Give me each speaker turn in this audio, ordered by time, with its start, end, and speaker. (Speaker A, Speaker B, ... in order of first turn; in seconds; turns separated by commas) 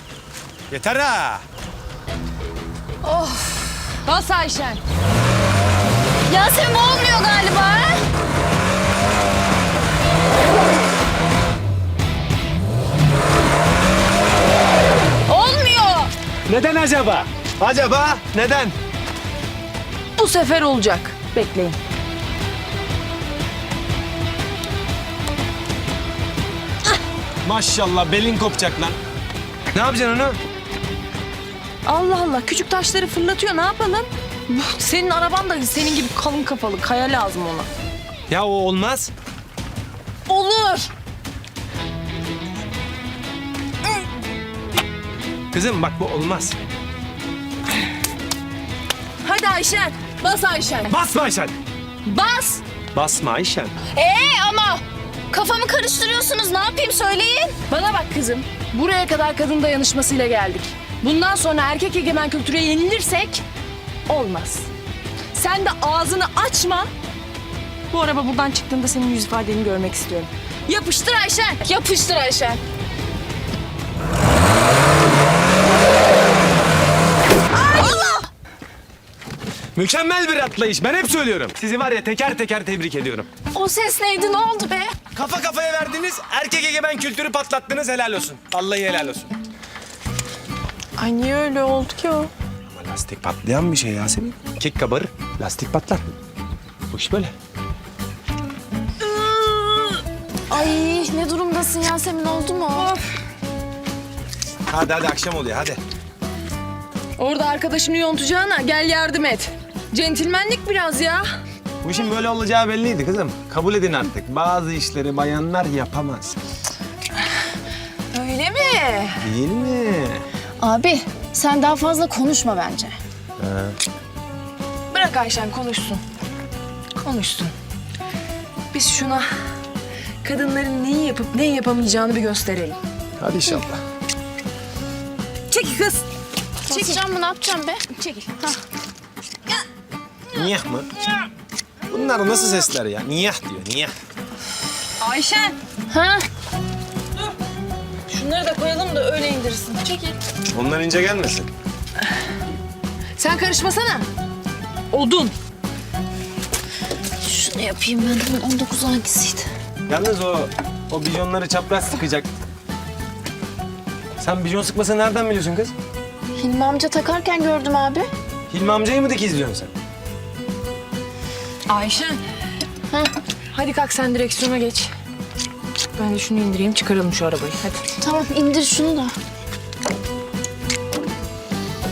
Speaker A: 0.7-1.4, Speaker B: 3.0-3.9, Speaker C: 4.0-4.8, Speaker B: 6.3-8.0, Speaker C: 15.3-16.1, Speaker A: 16.5-18.8, Speaker C: 20.2-21.8, Speaker A: 27.4-29.0, Speaker A: 29.7-30.4, Speaker C: 31.9-37.7, Speaker A: 38.3-39.1, Speaker C: 40.3-40.9, Speaker A: 45.5-46.6, Speaker C: 49.2-51.0, Speaker A: 50.9-51.5, Speaker C: 52.0-52.6, Speaker A: 52.9-53.8, Speaker B: 53.9-54.7, Speaker C: 54.1-54.8, Speaker B: 55.3-57.6, Speaker C: 57.6-63.4, Speaker C: 64.1-64.7, Speaker C: 65.3-66.9, Speaker C: 67.9-71.7, Speaker B: 71.7-72.6, Speaker B: 77.5-78.2, Speaker C: 77.6-78.2, Speaker A: 79.8-83.3, Speaker B: 83.5-85.0, Speaker A: 85.1-89.3, Speaker C: 91.0-92.3, Speaker A: 92.7-96.1, Speaker A: 96.9-97.3, Speaker C: 99.0-100.0, Speaker B: 100.5-102.9, Speaker C: 102.7-103.0, Speaker A: 104.7-105.8, Speaker C: 107.2-111.2, Speaker A: 111.8-116.4, Speaker C: 118.1-119.2, Speaker A: 119.2-120.2, Speaker B: 120.6-123.0, Speaker A: 123.4-123.8, Speaker C: 124.9-126.0, Speaker C: 127.0-127.5, Speaker C: 128.7-129.3, Speaker C: 130.2-132.8, Speaker A: 133.2-133.8, Speaker C: 135.5-136.1, Speaker B: 136.7-138.6, Speaker C: 136.7-137.0, Speaker C: 137.9-138.4, Speaker A: 140.3-140.9, Speaker A: 141.9-143.9, Speaker C: 145.0-145.6, Speaker B: 145.9-146.2, Speaker C: 148.1-150.2, Speaker A: 150.5-151.5, Speaker C: 153.2-154.1, Speaker C: 154.9-155.3, Speaker B: 157.2-159.5, Speaker A: 159.9-162.3, Speaker A: 164.2-165.7, Speaker B: 166.4-168.1, Speaker A: 168.5-169.7, Speaker C: 171.7-172.2, Speaker C: 173.5-174.9, Speaker C: 175.9-177.9, Speaker B: 178.0-179.2